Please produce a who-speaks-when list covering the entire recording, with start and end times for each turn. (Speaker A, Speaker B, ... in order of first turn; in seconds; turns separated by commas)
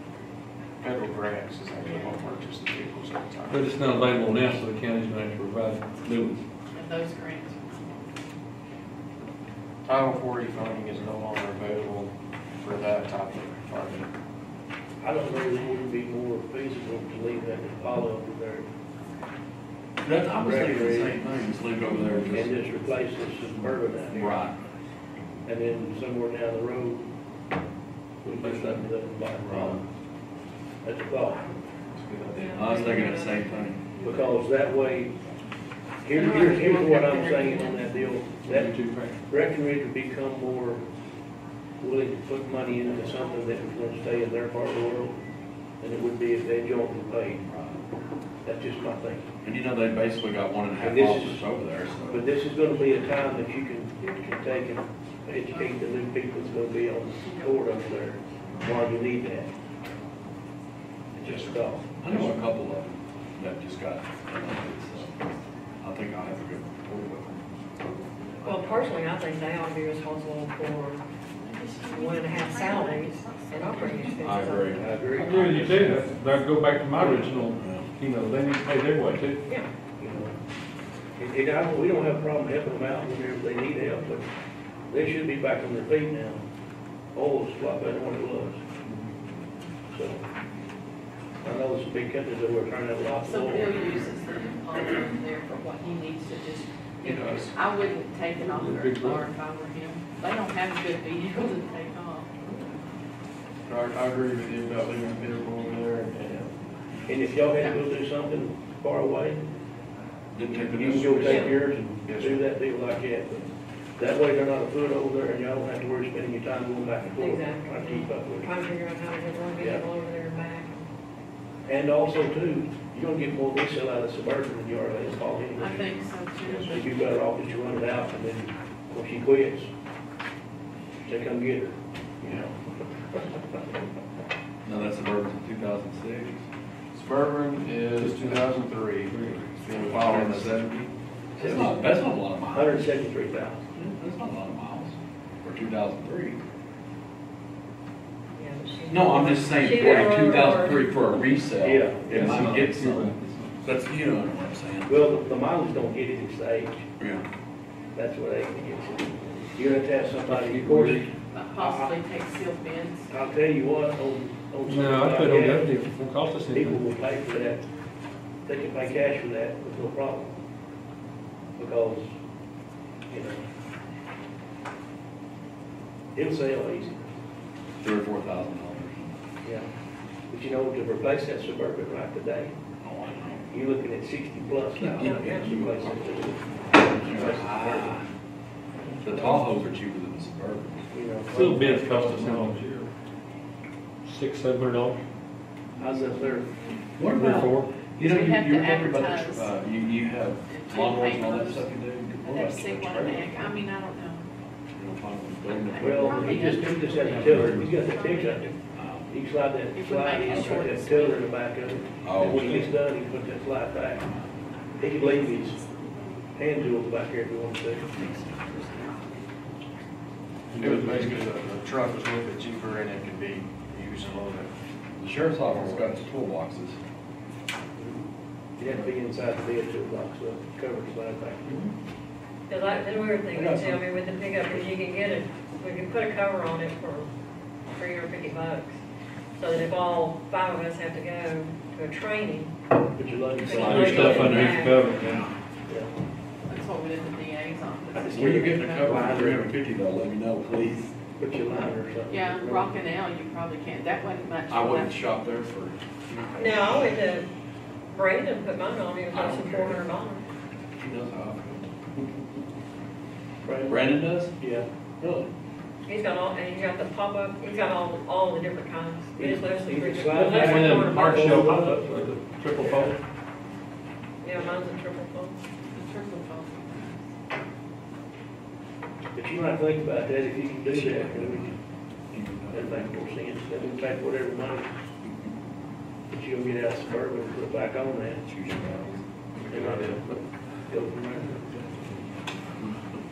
Speaker A: 0.8-3.7, Speaker B: 1.8-2.2, Speaker C: 3.5-6.4, Speaker B: 6.7-8.2, Speaker A: 9.9-14.1, Speaker D: 15.0-18.7, Speaker E: 20.0-22.6, Speaker D: 20.4-21.2, Speaker D: 22.3-24.4, Speaker E: 24.1-24.6, Speaker D: 25.4-27.1, Speaker D: 28.2-29.8, Speaker C: 28.4-28.8, Speaker C: 29.5-29.8, Speaker D: 30.8-31.5, Speaker F: 32.3-34.1, Speaker E: 32.5-33.8, Speaker D: 34.0-35.1, Speaker D: 36.0-38.7, Speaker B: 36.1-37.8, Speaker C: 38.5-39.2, Speaker D: 39.3-40.8, Speaker D: 41.8-45.2, Speaker D: 45.8-47.4, Speaker E: 47.5-47.8, Speaker D: 48.4-49.3, Speaker E: 49.4-52.2, Speaker D: 50.8-51.4, Speaker D: 52.1-59.5, Speaker B: 55.5-55.8, Speaker B: 57.2-57.6, Speaker A: 61.2-61.8, Speaker D: 61.2-62.4, Speaker E: 62.0-65.2, Speaker E: 65.8-67.4, Speaker B: 68.4-68.8, Speaker F: 68.5-71.0, Speaker B: 71.4-74.6, Speaker F: 71.9-74.8, Speaker E: 73.8-75.9, Speaker D: 74.7-76.0, Speaker C: 75.1-79.4, Speaker D: 77.0-77.3, Speaker E: 77.6-77.9, Speaker D: 80.0-80.4, Speaker D: 81.2-84.3, Speaker D: 84.9-86.4, Speaker D: 87.1-88.6, Speaker D: 89.9-90.2, Speaker D: 91.4-93.9, Speaker B: 93.2-102.3, Speaker A: 97.0-97.5, Speaker C: 98.4-99.2, Speaker A: 103.7-106.5, Speaker D: 107.1-109.4, Speaker E: 110.3-111.5, Speaker D: 110.5-113.5, Speaker F: 111.3-111.6, Speaker A: 112.0-112.4, Speaker D: 114.0-118.5, Speaker F: 117.2-120.8, Speaker D: 119.6-119.9, Speaker D: 121.7-129.7, Speaker B: 125.6-127.0, Speaker D: 131.1-132.6, Speaker E: 134.7-136.4, Speaker A: 136.9-140.7, Speaker C: 138.0-138.4, Speaker C: 139.1-139.6, Speaker E: 139.8-142.8, Speaker D: 141.4-142.0, Speaker D: 142.5-143.7, Speaker E: 143.7-146.4, Speaker F: 148.4-150.9, Speaker E: 148.9-153.1, Speaker D: 151.6-152.5, Speaker C: 152.1-153.7, Speaker E: 153.6-155.1, Speaker D: 154.9-156.9, Speaker E: 157.0-157.2, Speaker D: 157.9-162.0, Speaker C: 160.3-161.1, Speaker B: 161.3-163.1, Speaker D: 163.1-165.7, Speaker C: 164.7-166.8, Speaker D: 166.5-167.6, Speaker D: 168.5-170.3, Speaker D: 171.6-172.1, Speaker D: 173.1-173.4, Speaker D: 176.2-177.0, Speaker E: 177.8-179.1, Speaker D: 180.3-182.5, Speaker E: 182.8-183.5, Speaker D: 183.5-188.0, Speaker E: 184.8-186.0, Speaker F: 184.8-185.7, Speaker E: 187.0-188.1, Speaker E: 189.0-190.9, Speaker D: 189.1-189.4, Speaker D: 190.9-192.6, Speaker C: 191.3-192.9, Speaker C: 194.1-195.0, Speaker D: 195.8-196.5, Speaker E: 197.0-203.3, Speaker C: 197.1-197.7, Speaker B: 198.0-199.5, Speaker B: 200.5-201.7, Speaker B: 202.2-204.3, Speaker E: 204.8-206.6, Speaker B: 205.7-208.6, Speaker D: 205.8-208.5, Speaker C: 207.1-207.7, Speaker E: 207.2-207.7, Speaker E: 208.7-209.2, Speaker D: 209.1-214.1, Speaker B: 209.8-211.3, Speaker E: 210.3-210.7, Speaker E: 212.0-212.7, Speaker D: 214.8-215.6, Speaker D: 216.3-217.9, Speaker E: 217.9-219.0, Speaker C: 220.5-221.2, Speaker A: 220.6-224.5, Speaker E: 225.0-226.8, Speaker A: 225.5-225.9, Speaker D: 227.8-228.0, Speaker D: 228.6-231.7, Speaker F: 232.5-237.1, Speaker E: 233.3-233.8, Speaker F: 237.7-238.8, Speaker F: 239.4-242.5, Speaker D: 243.0-244.5, Speaker E: 243.4-245.3, Speaker F: 243.4-244.8, Speaker C: 243.7-245.2, Speaker B: 246.5-249.3, Speaker E: 248.0-250.9, Speaker D: 248.8-249.4, Speaker D: 251.2-252.8, Speaker B: 252.1-255.0, Speaker E: 254.5-256.9, Speaker F: 256.4-257.3, Speaker F: 257.9-260.2, Speaker E: 259.1-259.8, Speaker E: 260.8-261.7, Speaker D: 263.4-263.9, Speaker E: 263.7-264.4, Speaker D: 264.4-264.7, Speaker E: 265.0-265.3, Speaker F: 265.9-271.7, Speaker D: 269.2-272.0, Speaker C: 270.1-272.9, Speaker D: 272.6-272.9, Speaker F: 274.2-275.4, Speaker B: 275.7-277.0, Speaker D: 279.1-281.5, Speaker E: 280.7-281.6, Speaker E: 282.1-283.0, Speaker D: 282.5-284.8, Speaker D: 286.1-288.2, Speaker E: 288.2-289.1, Speaker D: 289.5-290.2, Speaker D: 290.7-291.7